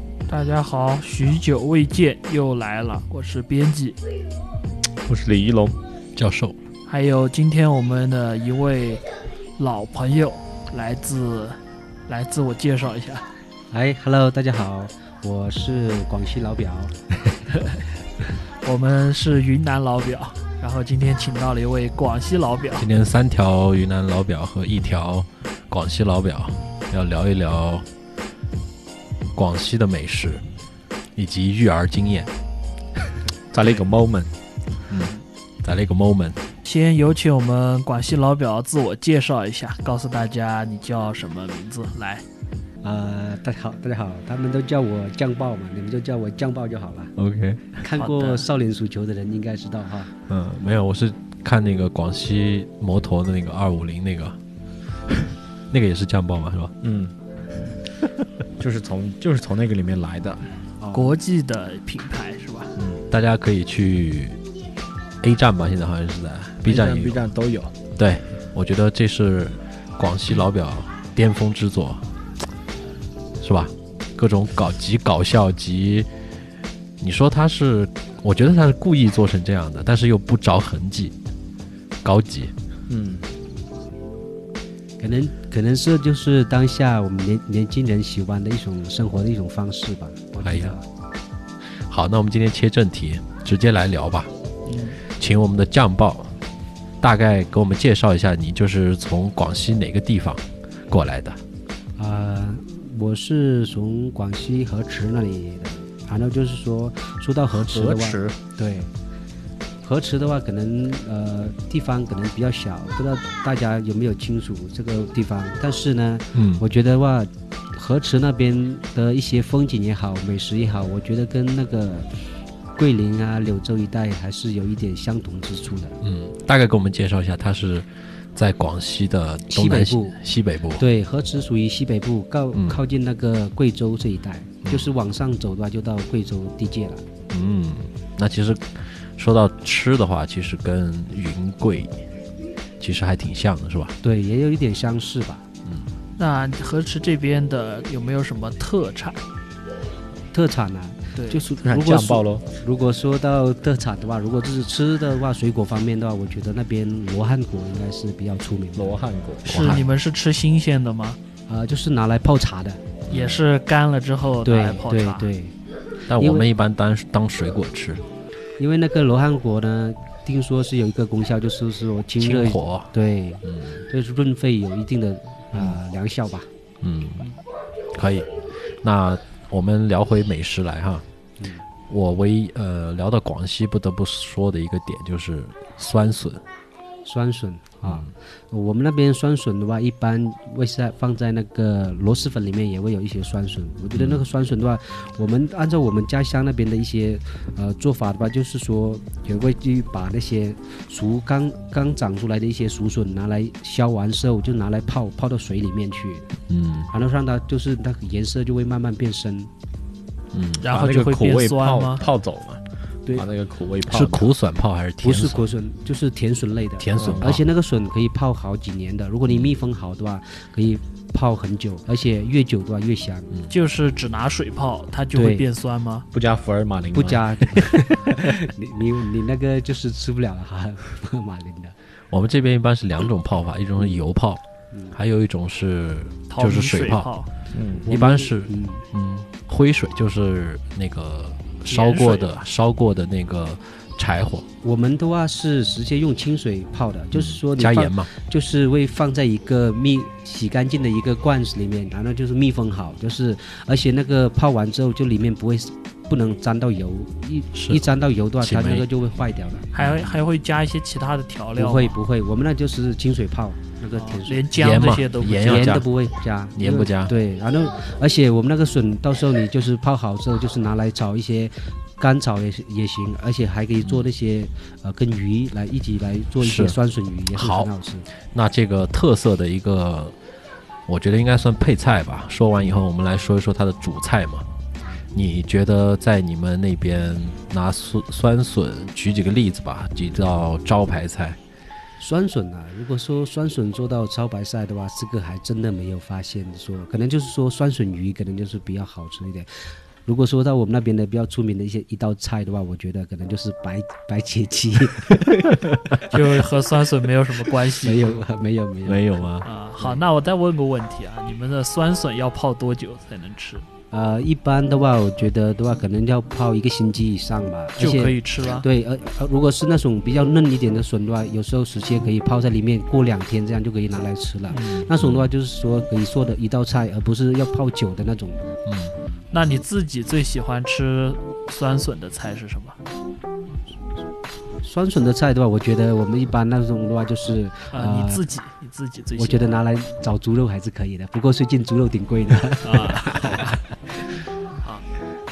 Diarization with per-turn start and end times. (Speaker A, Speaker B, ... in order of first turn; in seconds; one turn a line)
Speaker A: 0.3-4.0
Speaker B: 5.0-5.8
Speaker C: 6.2-6.6
Speaker A: 6.9-9.0
Speaker A: 9.6-13.2
Speaker D: 13.7-16.9
Speaker A: 17.5-17.8
Speaker A: 18.6-22.9
Speaker C: 22.8-27.9
Speaker C: 29.3-30.4
Speaker C: 31.1-32.3
Speaker B: 33.5-34.3
Speaker C: 34.9-36.4
Speaker A: 36.6-42.2
Speaker D: 42.8-47.1
Speaker C: 47.2-47.9
Speaker D: 47.8-50.1
Speaker A: 48.0-48.4
Speaker C: 50.3-54.4
Speaker C: 55.7-56.7
Speaker B: 56.8-57.1
Speaker B: 58.6-60.4
Speaker D: 60.8-61.1
Speaker A: 60.9-62.7
Speaker B: 62.8-63.0
Speaker C: 63.1-64.4
Speaker C: 65.2-67.3
Speaker B: 66.6-67.7
Speaker C: 67.9-72.0
Speaker C: 73.4-76.1
Speaker C: 77.0-81.1
Speaker C: 82.0-82.5
Speaker B: 82.9-83.2
Speaker D: 85.0-90.8
Speaker C: 90.4-90.8
Speaker C: 91.8-94.3
Speaker A: 94.7-95.0
Speaker C: 95.1-96.3
Speaker C: 97.0-101.4
Speaker D: 102.0-108.9
Speaker B: 107.5-108.3
Speaker D: 109.8-122.1
Speaker C: 116.3-116.6
Speaker D: 122.8-125.9
Speaker C: 126.0-130.8
Speaker D: 129.5-130.2
Speaker D: 130.8-137.0
Speaker C: 132.5-132.8
Speaker C: 134.6-134.9
Speaker C: 137.3-142.0
Speaker C: 142.8-143.9
Speaker D: 144.0-145.4
Speaker A: 146.2-149.2
Speaker D: 150.3-159.0
Speaker A: 151.2-151.4
Speaker B: 151.6-152.4
Speaker B: 158.8-159.5
Speaker A: 159.4-161.2
Speaker C: 159.5-159.9
Speaker D: 161.5-162.8
Speaker C: 163.1-163.4
Speaker A: 163.1-165.3
Speaker D: 164.4-165.5
Speaker C: 166.1-168.0
Speaker D: 166.2-166.5
Speaker D: 168.6-176.5
Speaker C: 172.2-172.9
Speaker C: 173.4-173.8
Speaker C: 175.5-175.8
Speaker C: 176.8-177.2
Speaker C: 177.9-178.3
Speaker C: 178.8-181.0
Speaker D: 181.4-181.6
Speaker C: 181.9-186.4
Speaker D: 187.0-206.3
Speaker C: 187.8-188.1
Speaker C: 193.9-194.2
Speaker C: 206.5-206.9
Speaker D: 206.9-209.5
Speaker C: 210.3-210.9
Speaker A: 210.6-212.0
Speaker B: 210.7-214.3
Speaker C: 213.9-215.4
Speaker D: 215.0-223.3
Speaker C: 216.8-217.4
Speaker B: 217.0-217.4
Speaker C: 219.3-219.5
Speaker A: 223.5-226.1
Speaker D: 225.1-225.4
Speaker B: 226.1-228.3
Speaker D: 226.9-231.7
Speaker C: 232.1-237.1
Speaker D: 234.7-235.0
Speaker A: 236.3-237.3
Speaker B: 237.5-237.9
Speaker D: 237.9-238.8
Speaker C: 237.9-244.4
Speaker A: 241.6-242.4
Speaker D: 244.6-259.7
Speaker C: 247.1-248.1
Speaker C: 257.5-257.8
Speaker C: 258.4-258.9
Speaker A: 259.7-262.0
Speaker C: 259.8-260.0
Speaker D: 261.6-278.1
Speaker A: 263.9-265.8
Speaker C: 264.5-265.9
Speaker C: 266.5-267.1
Speaker C: 273.8-274.1
Speaker C: 276.4-276.8
Speaker C: 277.3-277.7
Speaker C: 278.3-280.1
Speaker C: 280.9-284.4
Speaker C: 285.1-291.4
Speaker D: 292.0-299.5
Speaker D: 300.0-306.2
Speaker A: 306.1-308.2
Speaker D: 307.6-309.1
Speaker C: 308.8-309.5
Speaker A: 309.4-313.6
Speaker D: 313.9-328.4
Speaker A: 317.8-318.7
Speaker C: 324.9-325.3
Speaker C: 328.6-328.9
Speaker A: 329.3-332.8
Speaker D: 334.6-338.2
Speaker A: 337.7-339.6
Speaker D: 339.2-343.6
Speaker A: 342.6-343.6